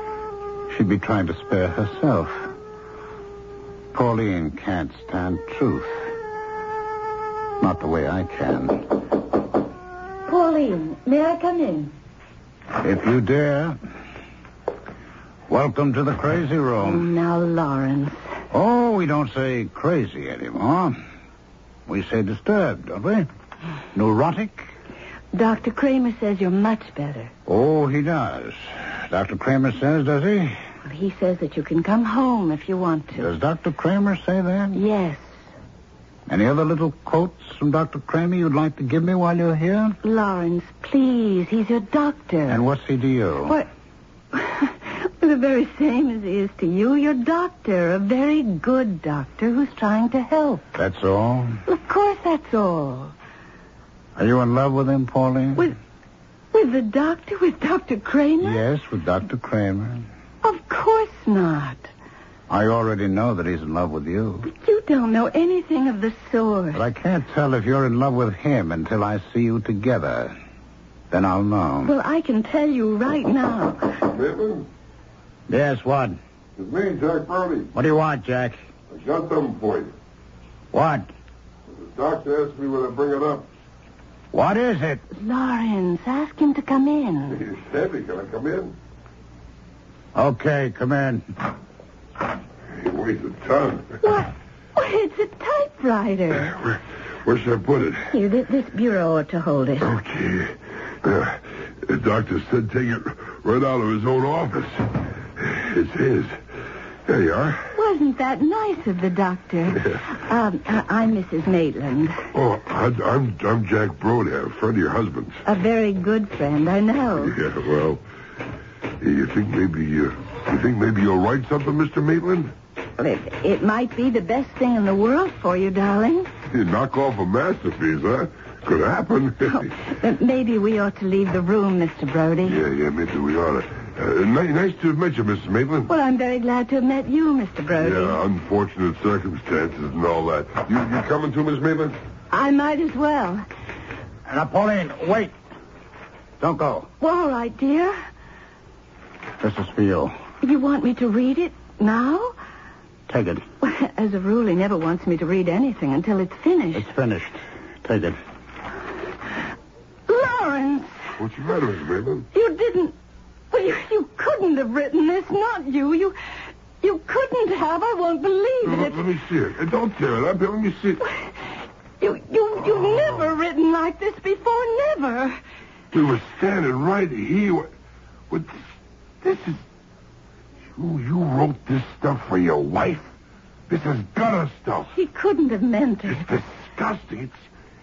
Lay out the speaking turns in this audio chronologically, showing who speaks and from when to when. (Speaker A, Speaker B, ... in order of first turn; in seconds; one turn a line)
Speaker A: 0.7-2.5
Speaker A: 3.9-6.0
Speaker A: 7.6-8.8
Speaker B: 10.3-11.9
Speaker A: 12.8-13.8
Speaker A: 15.5-17.1
Speaker B: 16.8-18.2
Speaker A: 18.5-21.0
Speaker A: 21.9-23.3
Speaker A: 23.9-24.7
Speaker B: 25.3-27.3
Speaker A: 27.5-30.6
Speaker B: 30.9-33.3
Speaker A: 33.1-34.8
Speaker B: 34.7-35.2
Speaker A: 36.3-40.0
Speaker B: 40.0-42.6
Speaker A: 42.5-43.6
Speaker B: 44.3-50.6
Speaker A: 50.8-51.6
Speaker B: 51.6-53.1
Speaker A: 54.2-55.7
Speaker B: 56.5-58.6
Speaker A: 58.4-60.1
Speaker B: 60.4-61.9
Speaker A: 62.5-64.5
Speaker B: 64.4-66.8
Speaker A: 66.7-70.3
Speaker A: 71.1-71.9
Speaker B: 71.8-74.0
Speaker C: 74.0-74.7
Speaker A: 75.5-76.2
Speaker C: 76.6-77.7
Speaker A: 77.7-78.6
Speaker C: 78.9-79.9
Speaker A: 80.7-81.1
Speaker C: 81.7-83.5
Speaker A: 84.3-85.0
Speaker B: 85.1-87.4
Speaker C: 87.3-88.7
Speaker A: 90.1-91.3
Speaker C: 92.7-94.0
Speaker B: 94.0-96.5
Speaker C: 96.3-98.1
Speaker B: 98.1-99.9
Speaker C: 99.8-106.3
Speaker C: 107.0-107.7
Speaker B: 107.7-112.2
Speaker C: 112.3-115.4
Speaker B: 115.4-117.3
Speaker C: 117.2-118.0
Speaker C: 119.0-122.5
Speaker B: 123.0-126.3
Speaker C: 126.5-129.9
Speaker B: 129.5-132.6
Speaker C: 132.4-135.9
Speaker B: 135.9-138.2
Speaker C: 137.8-142.0
Speaker B: 142.3-143.4
Speaker A: 144.3-145.3
Speaker A: 146.4-146.9
Speaker B: 147.0-148.0
Speaker A: 149.4-150.1
Speaker B: 150.4-152.3
Speaker A: 153.1-153.4
Speaker B: 153.6-156.9
Speaker A: 156.7-158.2
Speaker B: 160.1-161.1
Speaker C: 161.2-162.3
Speaker B: 162.3-162.9
Speaker B: 163.5-166.2
Speaker B: 166.8-169.0
Speaker C: 168.6-171.0
Speaker B: 171.0-171.3
Speaker B: 172.0-175.4
Speaker C: 175.9-177.7
Speaker C: 178.3-178.6
Speaker C: 179.2-179.6
Speaker C: 180.8-183.1
Speaker C: 183.7-184.9
Speaker B: 184.9-186.3
Speaker C: 186.1-187.4